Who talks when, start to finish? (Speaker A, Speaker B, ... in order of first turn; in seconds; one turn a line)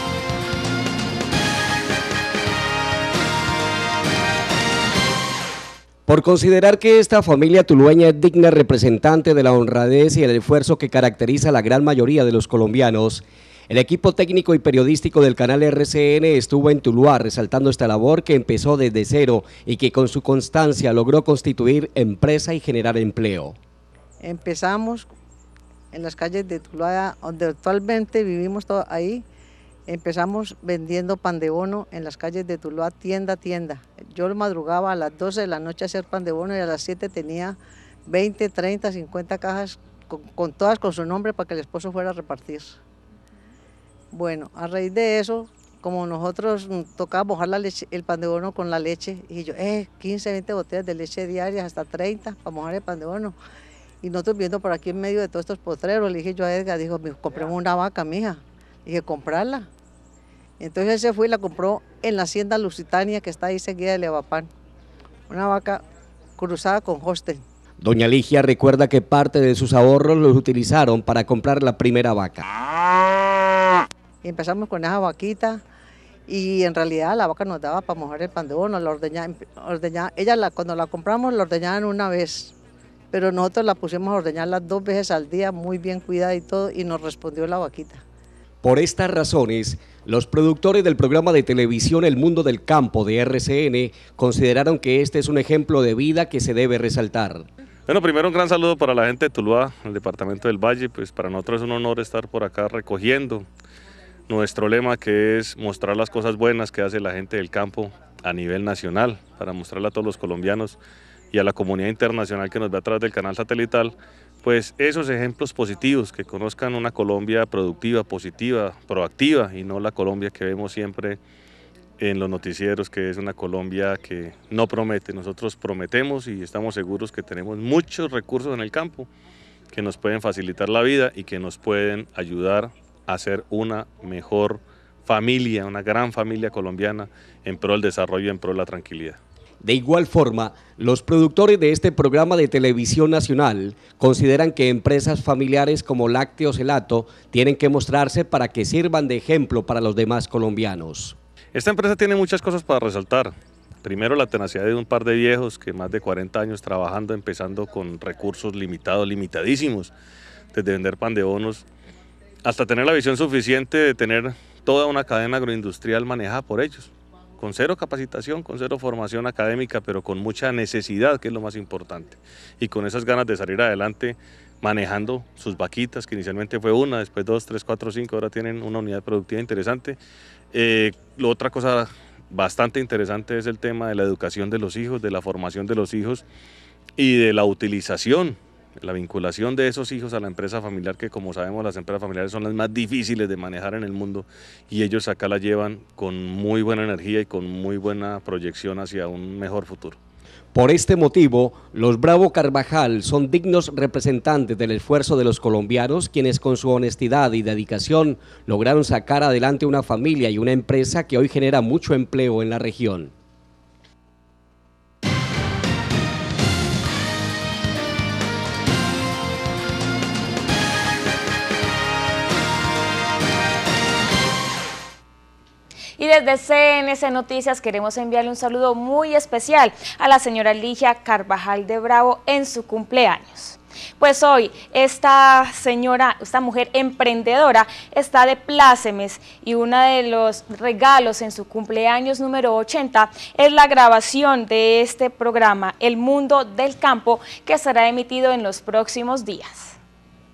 Speaker A: 6.1-23.6
Speaker B: 24.2-25.1
Speaker B: 25.9-29.2
Speaker B: 29.9-37.5
Speaker B: 38.1-42.8
Speaker B: 44.1-53.4
Speaker B: 54.0-59.7
Speaker B: 60.6-64.5
Speaker B: 65.3-65.8
Speaker B: 66.4-67.4
Speaker A: 67.8-72.5
Speaker B: 74.2-75.6
Speaker B: 76.3-82.5
Speaker B: 83.1-88.0
Speaker A: 88.6-97.5
Speaker C: 97.9-103.5
Speaker C: 104.3-110.8
Speaker C: 111.3-121.2
Speaker C: 122.0-129.1
Speaker C: 129.7-139.2
Speaker A: 139.6-151.2
Speaker C: 151.5-153.3
Speaker C: 153.8-159.9
Speaker C: 160.5-161.7
Speaker C: 162.4-180.0
Speaker C: 180.5-186.2
Speaker C: 187.0-200.0
Speaker A: 200.5-213.1
Speaker D: 226.0-249.8